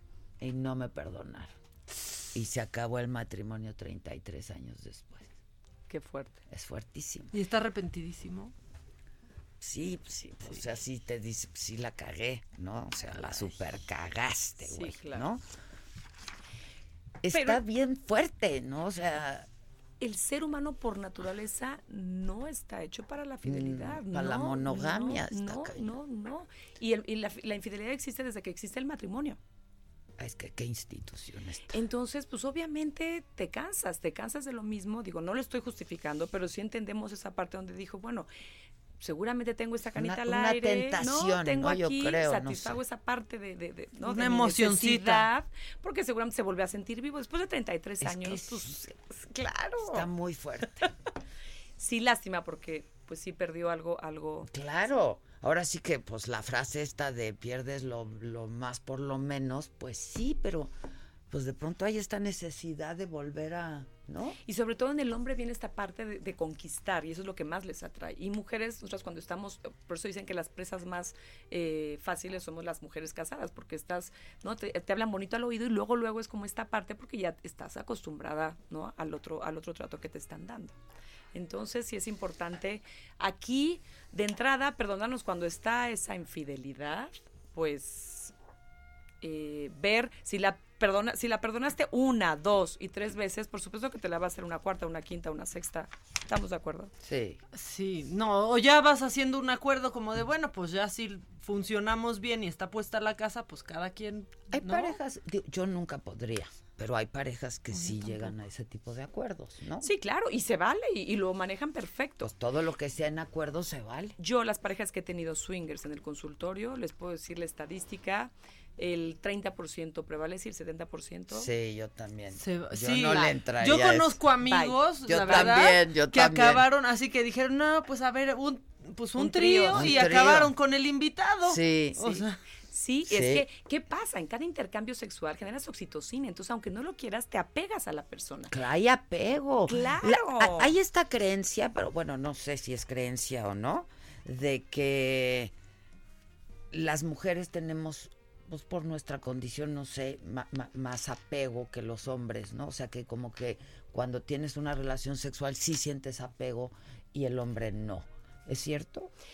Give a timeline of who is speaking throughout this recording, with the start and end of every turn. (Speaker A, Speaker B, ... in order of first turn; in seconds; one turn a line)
Speaker A: 0.4-1.5
Speaker A: 2.3-5.3
Speaker B: 5.9-6.4
Speaker A: 6.5-7.3
Speaker C: 7.3-8.5
Speaker A: 9.6-15.4
Speaker B: 13.2-13.7
Speaker B: 14.6-15.3
Speaker A: 17.2-19.5
Speaker B: 17.3-17.6
Speaker B: 20.0-29.4
Speaker A: 23.4-25.9
Speaker A: 30.2-31.7
Speaker B: 31.7-38.3
Speaker B: 39.0-50.1
Speaker A: 39.9-42.8
Speaker C: 44.0-45.3
Speaker A: 48.0-49.1
Speaker A: 49.8-50.9
Speaker B: 51.8-54.5
Speaker A: 54.5-60.7
Speaker A: 61.3-64.4
Speaker B: 64.5-80.8
Speaker B: 81.3-88.3
Speaker B: 89.2-96.9
Speaker A: 97.0-97.4
Speaker C: 97.5-105.0
Speaker A: 104.5-109.9
Speaker C: 107.7-108.3
Speaker B: 109.8-112.3
Speaker A: 112.2-114.2
Speaker B: 114.2-121.5
Speaker A: 121.3-124.2
Speaker C: 122.3-132.4
Speaker B: 124.5-125.7
Speaker A: 125.0-126.6
Speaker B: 129.2-130.2
Speaker A: 129.7-130.5
Speaker A: 131.4-132.2
Speaker B: 132.7-138.5
Speaker A: 133.1-133.4
Speaker A: 138.5-145.5
Speaker B: 139.7-140.7
Speaker A: 146.7-159.1